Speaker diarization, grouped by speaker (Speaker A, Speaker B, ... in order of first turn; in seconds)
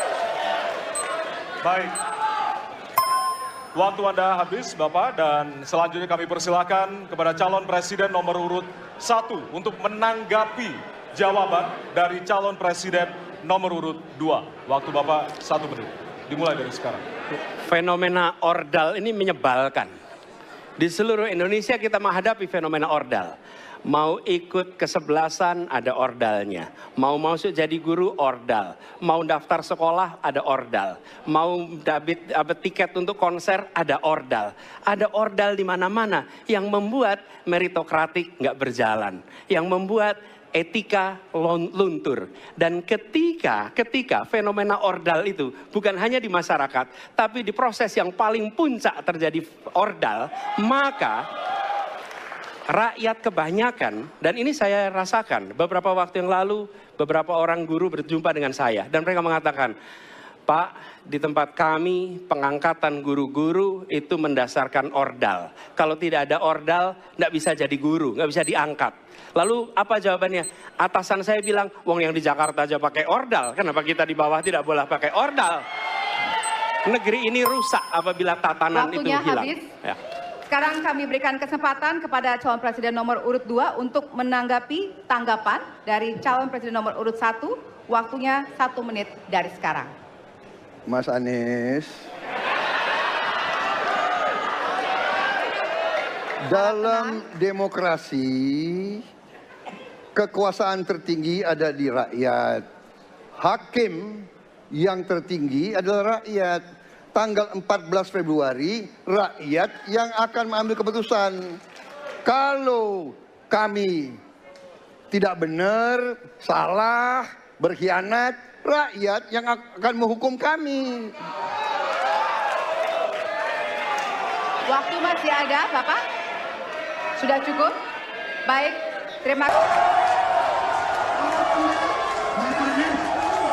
Speaker A: 1.6-2.0, 3.7-17.0
Speaker B: 17.6-19.9, 20.8-23.3, 23.9-51.2, 52.7-59.7, 60.5-75.6, 76.8-80.0
Speaker C: 78.7-79.7, 80.5-89.9, 96.5-97.2, 124.7-126.0, 127.2-127.7, 128.4-129.6
Speaker D: 90.9-92.0, 96.4-99.0, 100.1-102.6, 103.4-106.6, 107.1-111.6, 112.2-114.2, 115.1-121.1, 131.3-131.6, 132.3-133.1